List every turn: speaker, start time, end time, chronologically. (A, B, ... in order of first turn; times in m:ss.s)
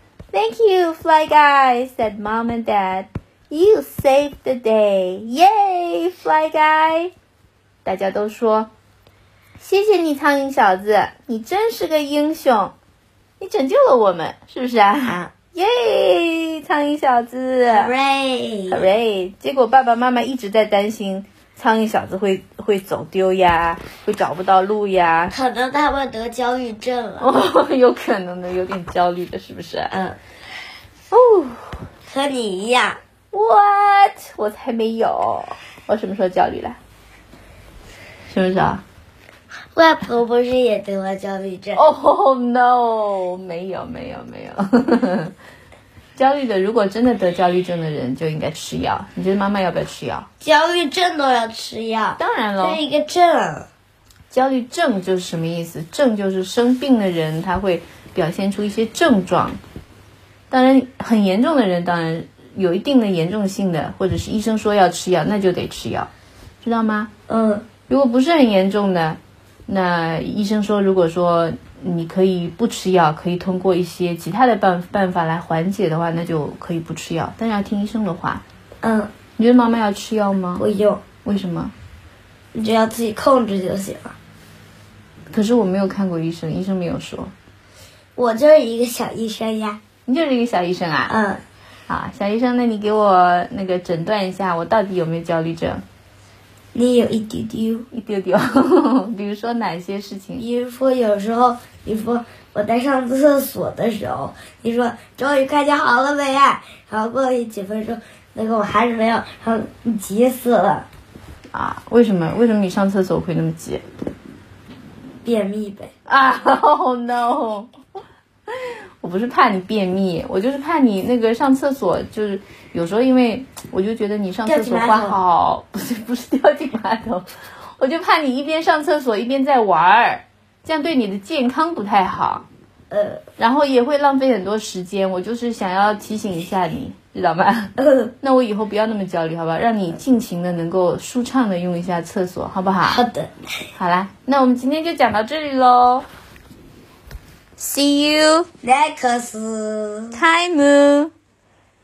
0:00.3-0:07.1 A
0:07.8-0:08.7 A
0:09.6-0:12.7 A
0:13.4-0:17.9 A
0:15.0-0:15.3 B
0:17.7-0:18.9 B
0:18.7-0:25.3 A
0:25.3-0:27.3 B
0:27.2-0:29.9 A
0:29.9-0:30.2 B
0:31.1-0:31.8 A
0:32.1-0:33.0 B
0:33.3-0:36.8 A
0:38.3-0:38.8 A
0:39.7-0:41.8 B
0:41.7-0:45.3 A
0:46.2-0:50.3 A
0:50.4-0:53.7 B
0:52.2-0:52.8 A
0:54.3-0:59.6 A
1:00.5-1:06.1 A
1:06.6-1:07.1 A
1:07.3-1:07.6 B
1:07.9-1:18.4 A
1:18.8-1:19.1 B
1:19.4-1:20.6 A
1:20.6-1:21.0 B
1:21.2-1:21.7 A
1:22.5-1:24.2 B
1:25.3-1:27.3 A
1:28.2-1:29.8 B
1:30.0-1:31.1 A
1:31.1-1:31.4 B
1:31.9-1:35.8 A
1:36.7-1:37.9 B
1:37.9-1:40.4 A
1:40.4-1:50.9 B
1:51.5-1:53.8 A
1:55.2-1:55.9 B
1:56.1-1:57.7 A
1:58.5-2:12.4 A
2:04.4-2:05.2 B
2:12.9-2:13.2 B
2:13.4-2:23.0 A
2:17.8-2:18.1 B
2:22.9-2:23.3 B
2:23.8-2:26.0 A
2:27.6-2:28.5 A
2:28.6-2:30.2 B
2:30.1-2:31.1 A